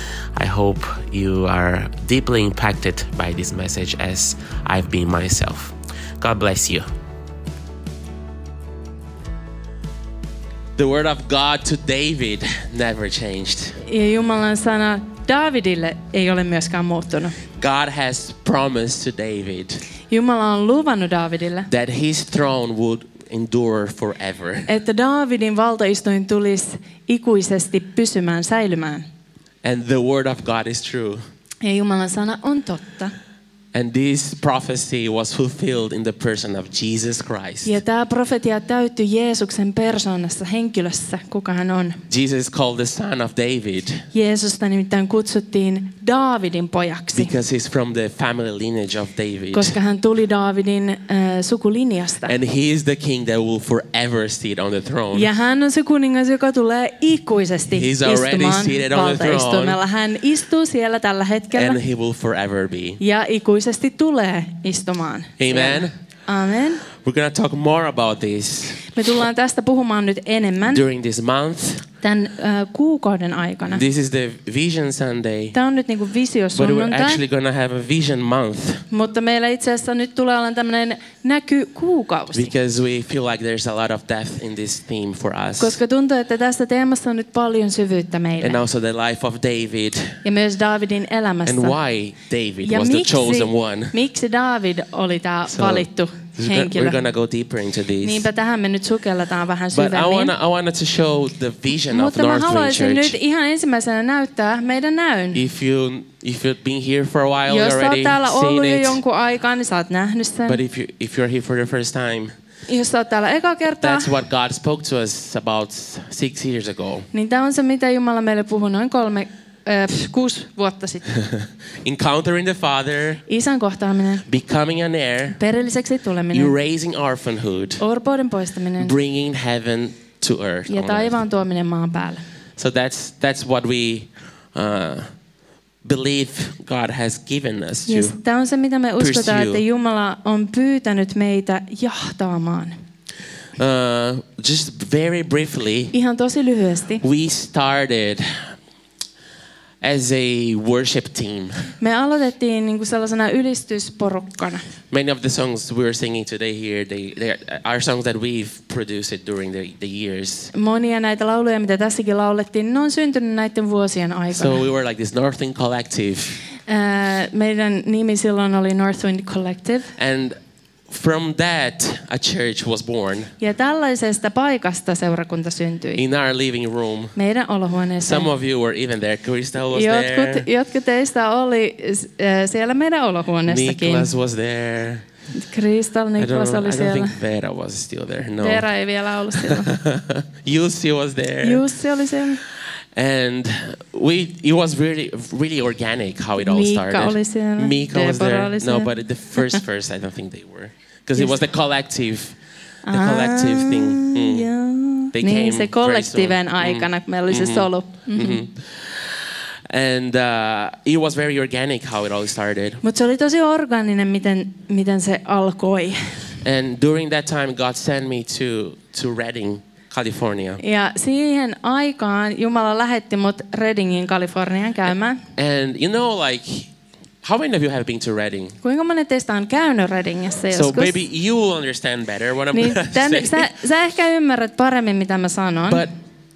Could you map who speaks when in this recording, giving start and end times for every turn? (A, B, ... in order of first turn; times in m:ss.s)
0:00.4-0:06.9 A
0:10.8-0:13.8 A
0:13.9-0:17.4 B
0:17.6-0:19.8 A
0:20.1-0:21.7 B
0:21.7-0:24.7 A
0:24.7-0:29.0 B
0:29.6-0:31.2 A
0:31.6-0:33.1 B
0:33.7-0:37.7 A
0:37.6-0:42.0 B
0:42.1-0:44.1 A
0:44.1-0:47.3 B
0:47.1-0:49.8 A
0:49.5-0:52.4 B
0:52.3-0:55.3 A
0:55.1-1:01.8 B
0:57.7-0:59.8 A
1:01.5-1:03.0 A
1:03.0-1:06.8 B
1:05.4-1:05.9 A
1:06.9-1:08.9 A
1:08.9-1:10.8 B
1:10.7-1:11.8 A
1:12.0-1:13.8 B
1:13.7-1:15.6 A
1:15.5-1:17.2 B
1:16.6-1:18.8 A
1:18.9-1:22.5 B
1:22.3-1:25.8 A
1:25.6-1:28.6 B
1:28.4-1:30.2 A
1:30.2-1:31.8 B
1:31.4-1:34.0 A
1:32.6-1:37.0 B
1:35.5-1:38.2 A
1:38.0-1:40.3 B
1:39.7-1:43.2 A
1:41.9-1:45.4 B
1:45.3-1:49.0 A
1:47.5-1:50.6 B
1:50.4-1:52.3 A
1:52.7-1:54.1 B
1:53.8-1:57.1 A
1:57.1-2:01.1 B
2:01.1-2:03.2 A
2:03.3-2:04.2 B
2:04.2-2:05.4 A
2:05.3-2:06.5 B
2:06.3-2:07.8 A
2:07.8-2:09.0 B
2:08.8-2:11.2 A
2:10.7-2:12.2 B
2:12.6-2:15.1 A
2:15.8-2:18.2 A
2:17.9-2:22.8 B
2:19.0-2:19.6 A
2:23.6-2:25.9 A
2:25.9-2:27.0 B
2:27.0-2:28.5 A
2:29.8-2:31.7 A
2:31.8-2:34.7 B
2:34.9-2:40.5 A
2:40.5-2:44.6 B
2:44.3-2:46.4 A
2:46.7-2:49.9 B
2:50.0-2:50.4 A
2:50.9-2:53.3 A
2:53.4-2:56.0 B
2:56.0-2:57.2 A
2:57.2-2:58.3 B
2:58.0-3:00.5 A
2:59.7-3:04.1 B
3:03.5-3:05.1 A
3:05.3-3:07.2 B
3:06.2-3:08.7 A
3:08.4-3:09.7 B
3:09.4-3:11.6 A
3:11.4-3:12.4 B
3:12.9-3:22.4 A
3:16.4-3:19.6 B
3:21.2-3:21.4 B
3:22.8-3:28.4 B
3:22.9-3:24.5 A
3:25.1-3:32.8 A
3:32.8-3:36.3 B
3:36.4-3:40.6 A
3:40.6-3:45.2 B
3:45.4-3:46.7 A
3:47.2-3:48.6 A
3:48.6-3:51.0 B
3:50.5-3:53.5 A
3:52.5-3:55.9 B
3:55.7-3:55.9 A